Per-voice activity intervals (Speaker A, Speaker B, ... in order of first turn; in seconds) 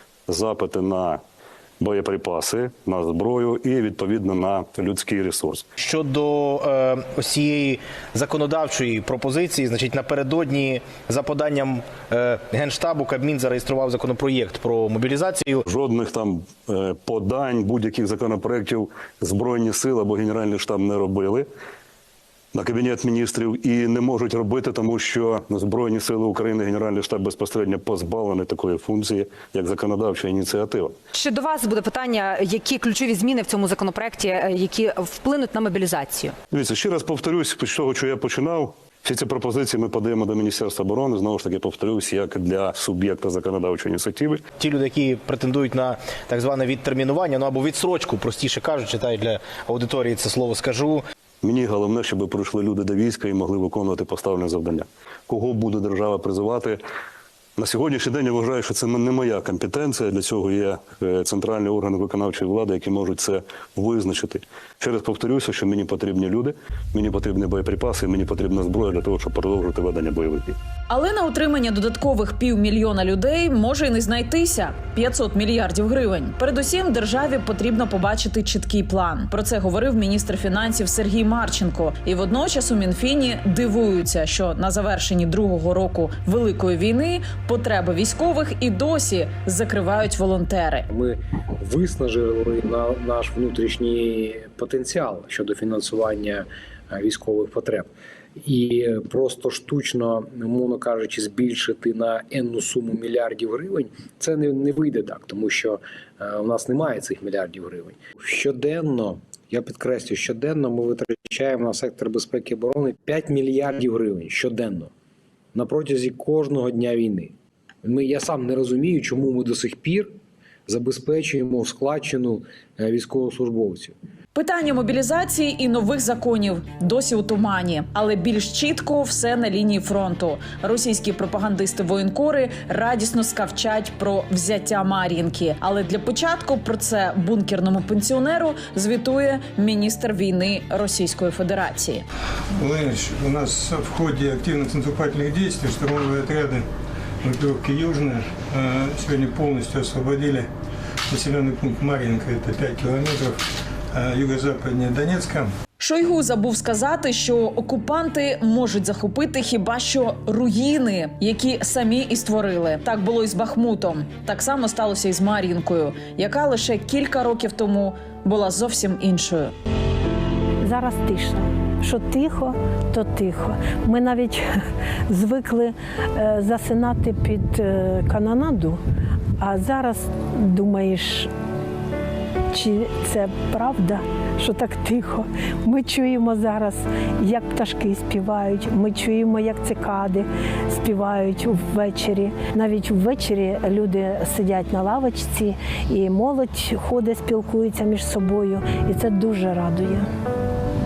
Speaker A: 0.3-1.2, 1.8-5.6, 15.7-21.5, 22.5-30.9, 36.5-44.4, 51.4-56.8, 57.6-70.6
Speaker B: 5.8-15.6, 44.6-51.0
Speaker C: 31.1-36.4
Speaker D: 70.9-90.9, 124.3-142.0, 155.8-169.5
Speaker E: 90.9-97.9, 98.4-114.9, 115.5-117.3, 117.8-120.1, 120.7-123.9
Speaker F: 142.6-146.6, 147.2-150.5, 151.1-153.4, 153.9-155.5
Speaker G: 170.6-174.4, 175.1-178.8, 179.4-181.3, 182.5-200.1